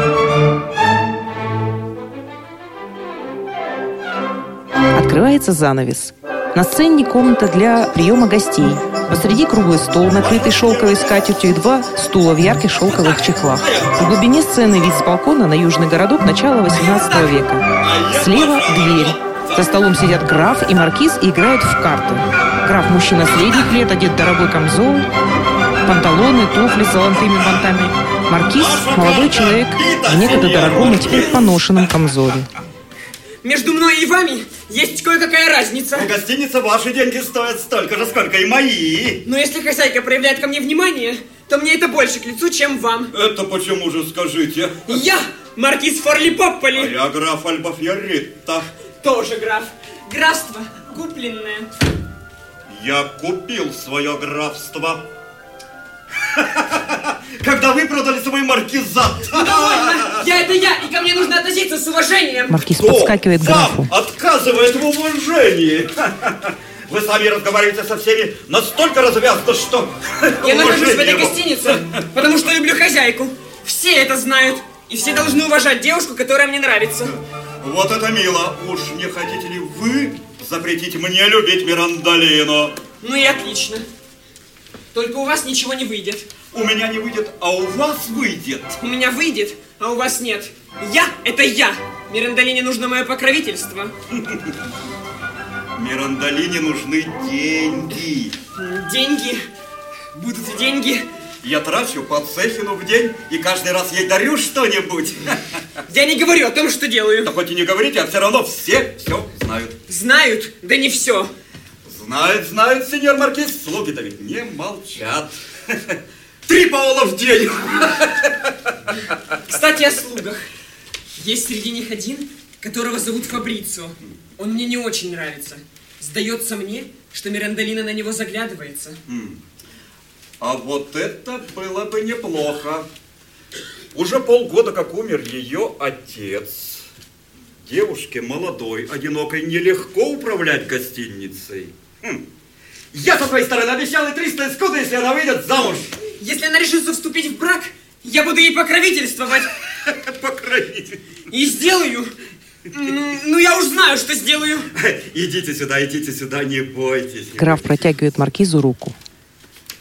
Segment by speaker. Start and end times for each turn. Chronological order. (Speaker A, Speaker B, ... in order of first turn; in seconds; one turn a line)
Speaker A: 5.0-25.1
Speaker B: 10.2-11.5
Speaker B: 12.8-14.2
Speaker C: 16.8-17.3
Speaker B: 17.8-19.7
Speaker A: 25.9-32.5
Speaker B: 27.3-27.6
Speaker B: 28.6-31.6
Speaker C: 33.4-36.1
Speaker B: 35.9-39.2
Speaker C: 39.2-43.1
Speaker B: 43.1-45.0
Speaker C: 44.9-46.9
Speaker B: 46.7-48.7
Speaker C: 49.0-51.7
Speaker B: 52.7-55.1
Speaker B: 56.3-60.2
Speaker C: 59.4-62.6
Speaker A: 62.5-63.9
Speaker B: 62.8-71.8
Speaker C: 70.4-77.1
Speaker B: 77.1-82.8
Speaker C: 83.0-83.9
Speaker C: 84.9-86.3
Speaker B: 86.5-88.8
Speaker C: 88.8-93.9
Speaker B: 94.1-94.5
Speaker B: 95.8-98.3
Speaker C: 98.6-99.5
Speaker C: 100.1-101.1
Speaker B: 101.4-105.6
Speaker C: 105.9-107.3
Speaker B: 107.2-109.8
Speaker C: 109.9-111.3
Speaker B: 111.8-118.5
Speaker C: 119.5-120.4
Speaker C: 121.2-129.0
Speaker B: 129.1-129.4
Speaker B: 130.4-132.9
Speaker B: 133.9-136.8
Speaker B: 137.6-142.2
Speaker B: 142.9-146.0
Speaker C: 146.2-149.5
Speaker B: 149.8-151.0
Speaker C: 151.3-152.1
Speaker C: 152.7-154.7
Speaker B: 154.7-157.8
Speaker A: 157.4-159.0